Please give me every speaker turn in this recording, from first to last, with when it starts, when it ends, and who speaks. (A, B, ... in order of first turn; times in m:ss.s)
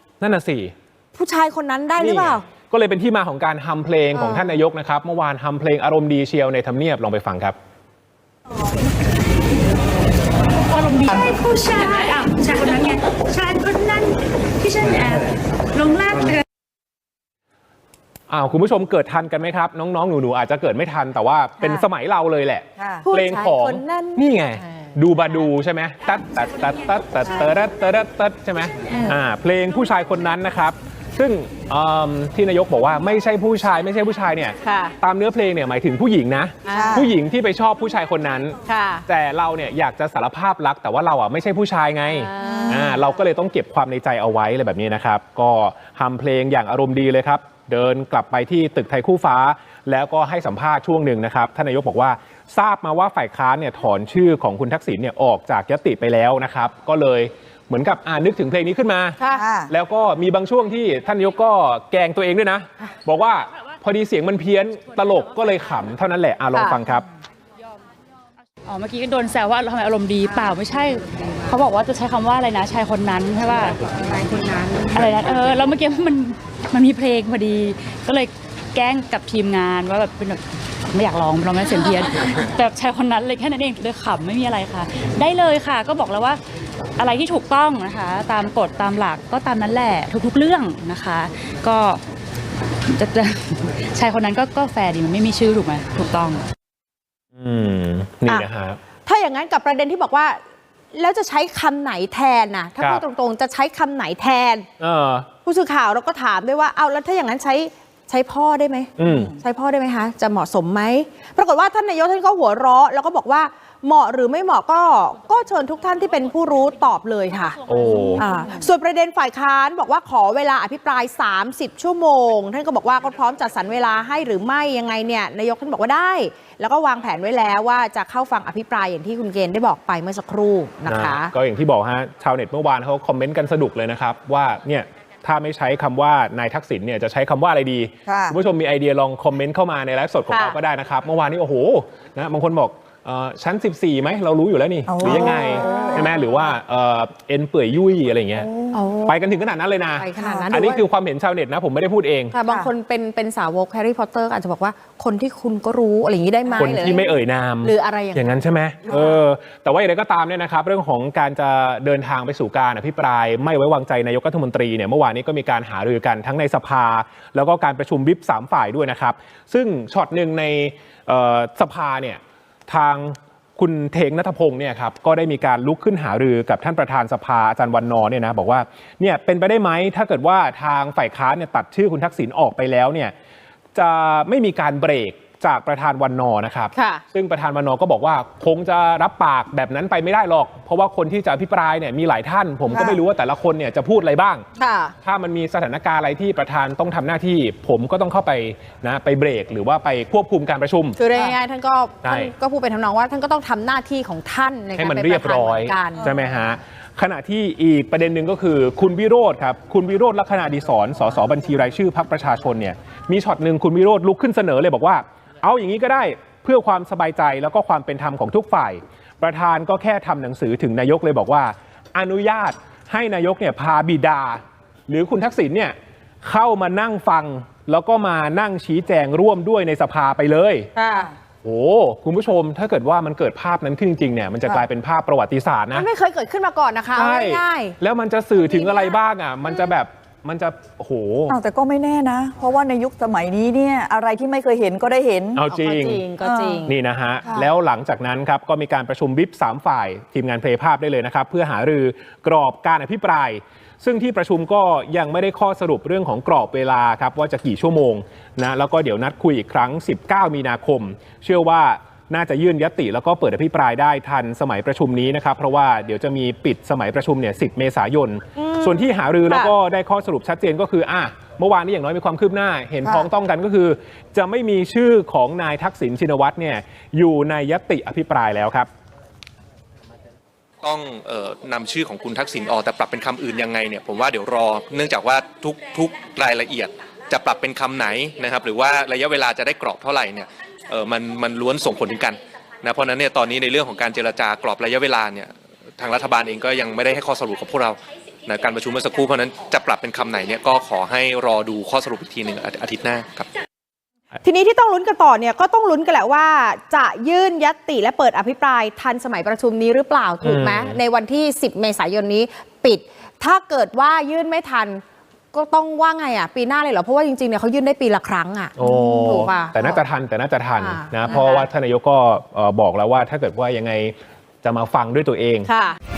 0:00.2-0:00.7 A
0:01.2-0:02.4 B
0:02.0-0:07.6 A
0:04.1-0:04.6 B
0:10.7-0:16.4 C
0:18.3-1:07.1 A
0:21.6-0:21.8 D
0:22.8-0:23.0 D
0:23.0-0:24.9 B
0:28.9-0:29.1 D
0:34.6-0:34.9 B
0:36.6-0:37.0 B
0:36.7-0:37.1 D
0:38.6-0:39.0 B
0:42.4-0:42.9 B
0:42.4-0:43.0 D
0:59.2-0:59.4 B
0:59.3-0:59.7 D
1:06.5-1:06.8 B
1:08.6-1:13.8 C
1:14.1-1:14.9 B
1:14.9-1:26.4 C
1:27.0-1:32.0 C
1:32.9-1:36.4 C
1:37.4-1:38.8 A
1:39.0-1:40.4 B
1:40.9-1:44.7 B
1:42.8-1:43.0 A
1:44.8-1:45.3 A
1:45.4-1:57.6 B
1:49.0-1:49.3 A
1:49.0-1:49.3 D
1:57.6-1:58.2 A
1:58.2-2:11.3 B
2:10.9-2:28.5 A
2:18.1-2:18.4 D
2:20.3-2:20.6 B
2:24.9-2:26.1 D
2:25.0-2:26.2 B
2:28.5-2:28.8 D
2:28.7-2:29.2 B
2:29.0-2:32.3 A
2:29.9-2:30.8 B
2:30.2-2:30.5 D
2:32.3-2:37.0 B
2:36.6-3:03.1 A
2:37.6-2:38.3 B
2:38.9-2:39.2 B
3:03.7-3:14.4 A
3:06.7-3:07.0 B
3:12.7-3:13.0 D
3:14.6-3:14.9 B
3:15.0-3:21.0 A
3:21.0-3:26.1 B
3:22.0-3:22.3 A
3:24.8-3:50.7 A
3:50.7-3:51.1 B
3:51.4-3:55.8 A
3:55.7-3:57.8 B
3:56.9-4:01.4 A
3:58.4-3:58.9 B
4:01.3-4:05.4 D
4:05.3-4:06.0 A
4:05.5-4:06.7 B
4:06.2-4:06.7 D
4:06.6-4:38.7 A
4:07.2-4:07.5 D
4:28.4-4:29.5 B
4:32.8-4:33.1 D
4:40.6-5:03.3 E
5:04.2-5:19.8 B
5:10.2-5:10.8 A
5:18.6-5:25.5 A
5:20.6-5:21.5 B
5:25.5-5:25.8 B